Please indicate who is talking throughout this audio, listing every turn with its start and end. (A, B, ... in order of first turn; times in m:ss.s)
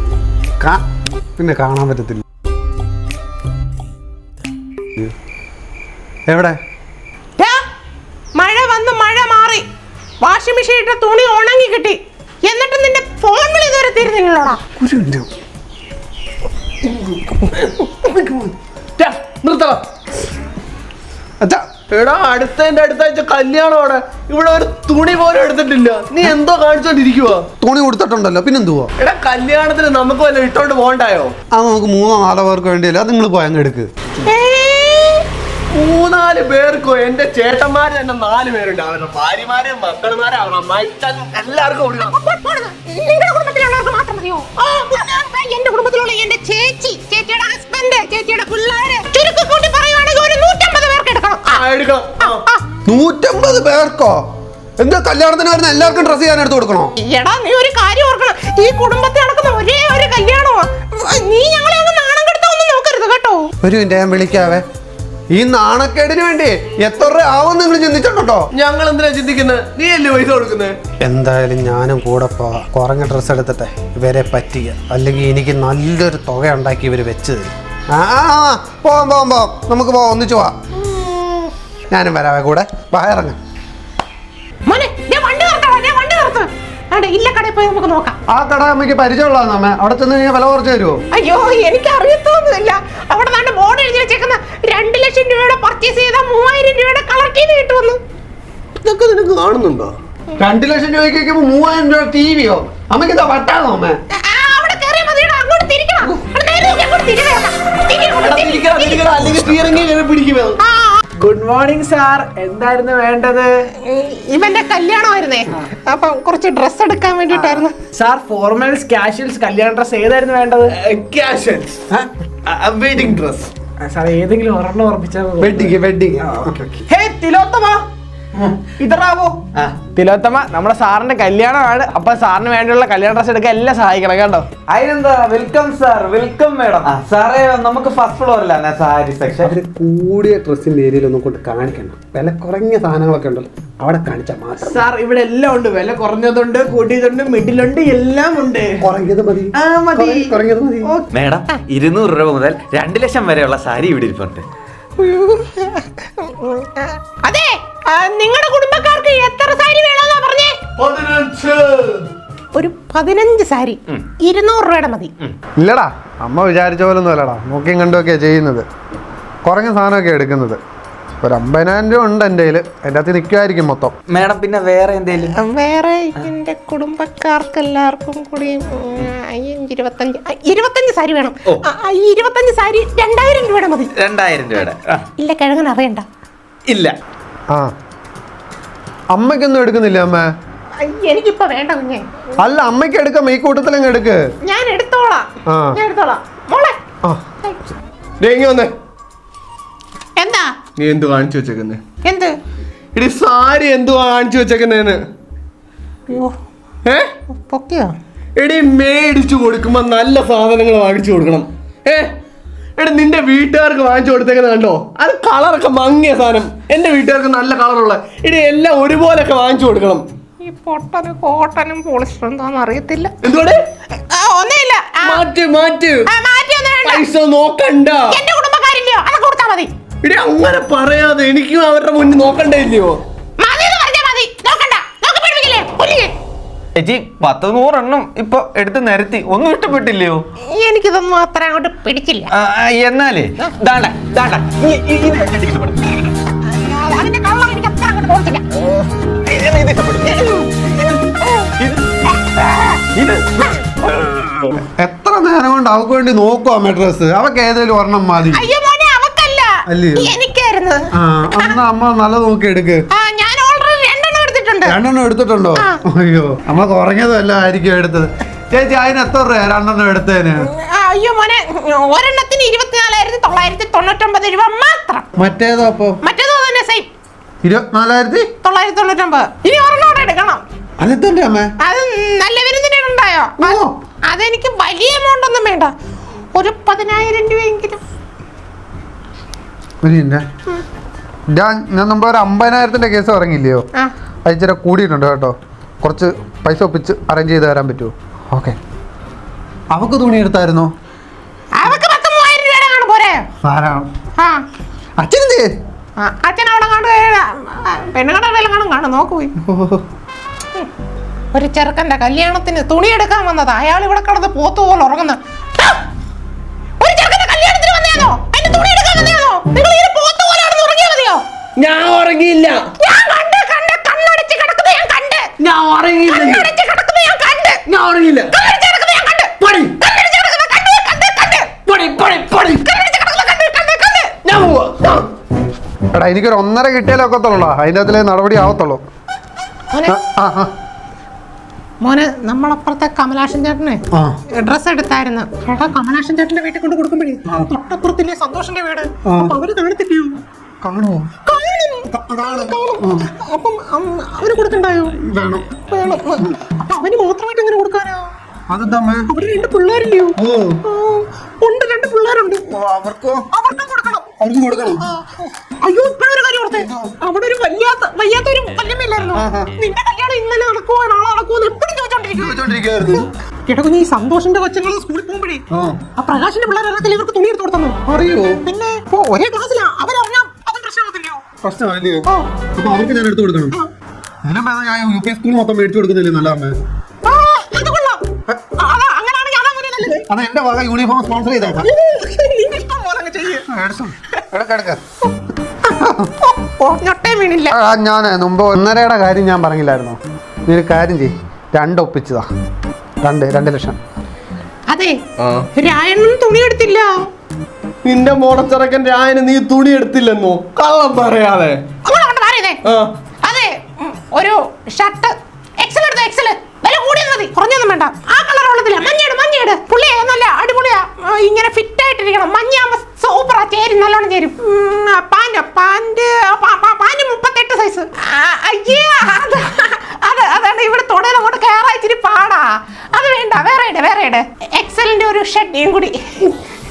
0:01.4-0:02.2 A
0:06.3-0:06.6 A
0:07.4-0:07.6 B
0:08.4-0:09.7 B
0:10.2-0:14.6 B
0:14.8-0:15.3 A
0:16.9-0:19.8 C
0:21.9-0:27.4 C
0:27.6-0:28.9 A
0:29.0-0:31.3 C
0:31.6-0:33.9 A
0:34.3-0:35.3 B
0:35.7-0:42.1 C
0:42.0-0:51.6 B
0:51.5-0:52.4 C
0:52.2-0:52.6 B
0:52.9-0:54.2 A
0:54.8-0:56.9 A
0:57.0-1:03.5 B
1:03.6-1:04.6 A
1:05.3-1:08.4 A
1:08.5-1:10.8 C
1:11.0-1:20.5 A
1:20.8-1:21.5 B
1:21.9-1:23.4 A
1:24.7-1:28.2 B
1:28.3-1:31.0 A
1:31.1-1:38.0 B
1:38.8-1:39.9 C
1:40.4-1:44.0 A
1:44.2-1:49.2 B
1:48.2-1:50.6 C
1:50.6-1:51.0 B
1:51.2-1:53.5 D
1:53.8-1:57.8 B
1:57.9-2:00.8 D
2:00.9-2:01.8 C
2:02.6-2:03.5 C
2:03.8-2:05.8 D
2:05.4-2:06.8 A
2:06.3-2:07.8 D
2:08.8-2:09.4 D
2:10.0-2:14.5 D
2:14.7-2:19.5 E
2:19.4-2:24.8 A
2:24.6-2:28.9 D
2:28.8-2:31.0 A
2:29.5-2:31.0 D
2:31.1-2:34.4 E
2:35.0-2:40.6 B
2:40.8-2:42.1 C
2:42.6-2:45.1 B
2:45.6-2:48.6 A
2:49.4-2:50.6 A
2:51.2-2:53.9 A
2:54.1-2:55.4 E
2:55.2-3:03.9 B
3:04.0-3:05.0 E
3:05.2-3:06.1 B
3:06.7-3:07.0 E
3:09.1-3:10.2 A
3:10.8-3:12.2 B
3:12.4-3:14.2 A
3:14.4-3:16.8 B
3:15.5-3:15.8 A
3:18.2-3:18.7 C
3:20.2-3:20.5 B
3:20.8-3:21.8 C
3:22.0-3:22.3 B
3:23.0-3:25.0 C
3:26.1-3:26.3 B
3:26.8-3:27.1 C
3:27.3-3:27.9 B
3:28.4-3:32.1 C
3:32.8-3:40.0 C
3:40.4-3:43.1 B
3:43.2-3:43.6 C
3:44.0-3:45.2 B
3:45.0-3:46.1 C
3:46.1-3:47.0 B
3:46.8-3:48.1 C
3:48.1-3:49.7 B
3:50.0-3:53.0 C
3:53.4-3:56.1 B
3:56.8-4:00.2 E
4:00.4-4:02.3 B
4:02.3-4:06.0 E
4:06.4-4:08.4 B
4:09.2-4:11.0 E
4:11.6-4:11.9 E
4:12.6-4:14.5 E
4:14.6-4:18.5 A
4:18.3-4:20.8 B
4:19.7-4:20.1 A
4:21.0-4:22.8 A
4:22.9-4:24.8 B
4:24.6-4:30.5 A
4:30.4-4:35.1 B
4:35.2-4:36.0 A
4:36.0-4:36.9 B
4:37.4-4:38.3 A
4:38.4-4:40.4 B
4:40.8-4:41.5 A
4:41.6-4:45.7 B
4:43.4-4:43.7 A
4:46.4-4:47.8 B
4:49.8-4:50.2 A
4:51.3-4:53.6 A
4:54.3-4:58.6 A
4:59.7-5:00.7 A
5:01.6-5:03.3 B
5:03.4-5:03.9 A
5:05.0-5:05.5 A
5:06.0-5:09.3 B
5:09.4-5:09.8 A
5:11.3-5:15.8 B
5:16.8-5:21.2 B
5:21.6-5:22.6 C
5:22.8-5:25.2 B
5:25.4-5:26.5 C
5:26.1-5:27.6 B
5:27.7-5:28.3 C
5:28.3-5:31.6 B
5:31.7-5:32.6 C
5:32.6-5:34.2 B
5:34.2-5:35.1 C
5:35.9-5:38.8 A
5:39.7-5:40.0 B
5:39.9-5:40.5 A
5:41.8-5:50.2 B
5:49.1-5:49.4 A
5:50.6-5:51.1 A
5:51.3-5:55.0 B
5:51.9-5:53.1 A
5:55.0-5:55.5 A
5:55.6-5:58.1 B
5:58.5-5:59.1 A
5:59.1-6:02.4 B
6:00.2-6:00.6 A
6:02.5-6:03.2 A
6:03.3-6:04.1 B
6:04.2-6:04.8 A
6:05.6-6:15.4 B
6:06.6-6:06.9 A
6:09.2-6:09.5 A
6:12.2-6:13.1 A
6:16.0-6:17.8 B
6:17.9-6:18.4 A
6:18.4-6:21.2 B
6:21.4-6:23.5 A
6:24.2-6:26.6 A
6:27.0-6:28.0 B
6:28.6-6:30.1 B
6:30.1-6:31.7 A
6:31.6-6:33.5 B
6:33.5-6:34.8 A
6:35.7-6:36.1 A
6:36.2-6:37.5 B
6:37.5-6:42.3 A
6:43.0-6:43.8 A
6:44.7-6:45.0 B
6:45.2-6:45.5 C
6:45.6-6:47.0 B
6:47.8-6:51.6 C
6:51.8-6:52.6 B
6:52.7-6:52.9 C
6:53.2-7:16.2 B